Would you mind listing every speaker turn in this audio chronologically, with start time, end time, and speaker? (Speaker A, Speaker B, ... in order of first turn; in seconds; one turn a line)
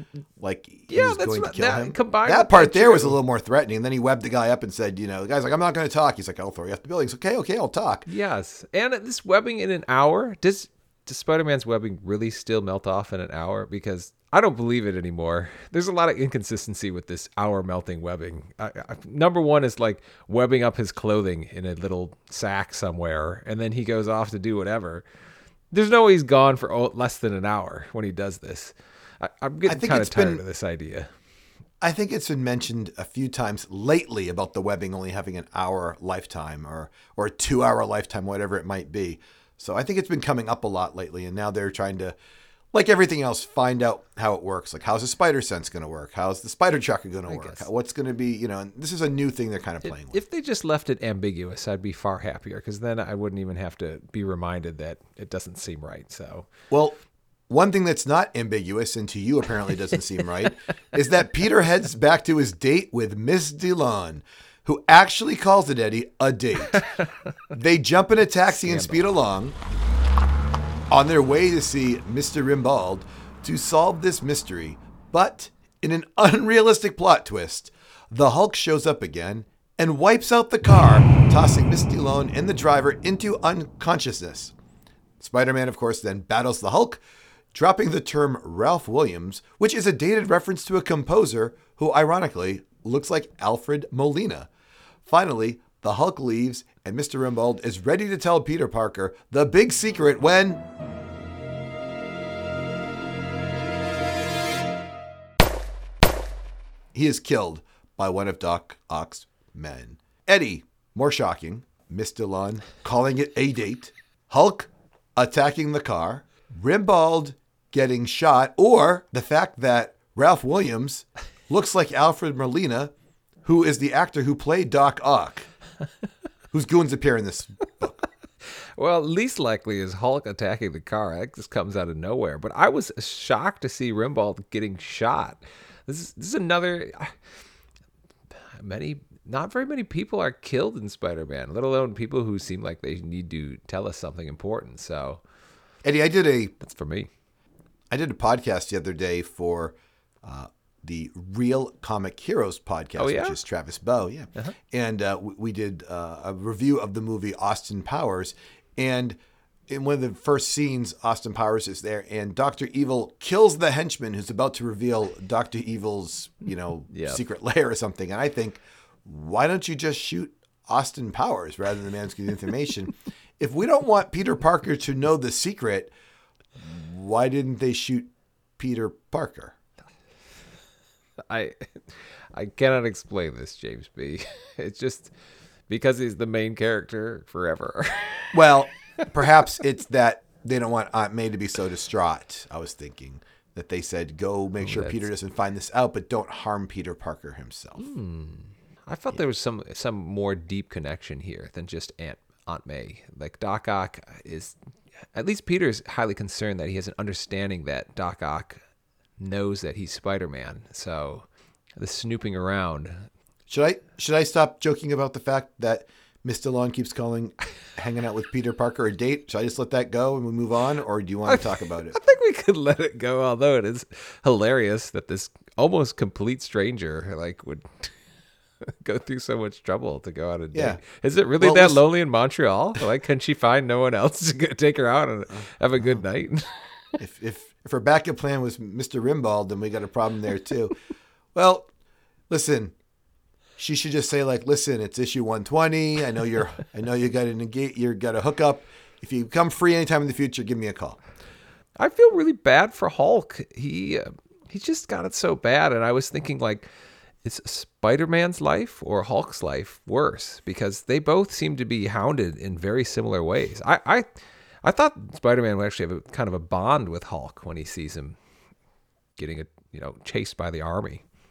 Speaker A: 0.4-8.1
Speaker B: 0.9-3.2
Speaker B: 8.1-25.1
Speaker B: 25.7-31.1
Speaker A: 29.7-30.4
Speaker A: 31.8-42.1
Speaker A: 42.7-50.2
Speaker B: 47.3-47.7
Speaker B: 49.8-56.5
Speaker A: 56.7-66.8
Speaker B: 66.7-67.1
Speaker A: 67.5-69.6
Speaker B: 68.5-69.0
Speaker A: 70.9-84.5
Speaker A: 85.2-87.0
Speaker A: 87.5-94.5
Speaker A: 95.1-100.6
Speaker A: 106.9-122.9
Speaker A: 123.5-125.5
Speaker A: 126.5-128.0
Speaker B: 128.8-137.2
Speaker B: 138.6-145.2
Speaker A: 145.8-146.6
Speaker B: 146.6-147.1
Speaker A: 147.9-175.9
Speaker B: 153.0-153.4
Speaker B: 166.9-167.2
Speaker A: 176.6-179.6
Speaker B: 181.3-185.1
Speaker B: 185.7-189.1
Speaker A: 188.3-197.9
Speaker B: 194.6-195.1
Speaker B: 197.8-204.6
Speaker B: 205.1-208.6
Speaker B: 209.2-213.1
Speaker A: 213.5-222.0
Speaker B: 221.3-227.9
Speaker B: 228.8-237.0
Speaker A: 230.5-230.8
Speaker A: 231.4-231.8
Speaker A: 237.0-240.8
Speaker A: 241.3-241.7
Speaker A: 242.3-242.8
Speaker A: 243.6-251.0
Speaker B: 251.8-256.7
Speaker B: 257.2-264.1
Speaker B: 264.6-268.2
Speaker B: 269.2-271.0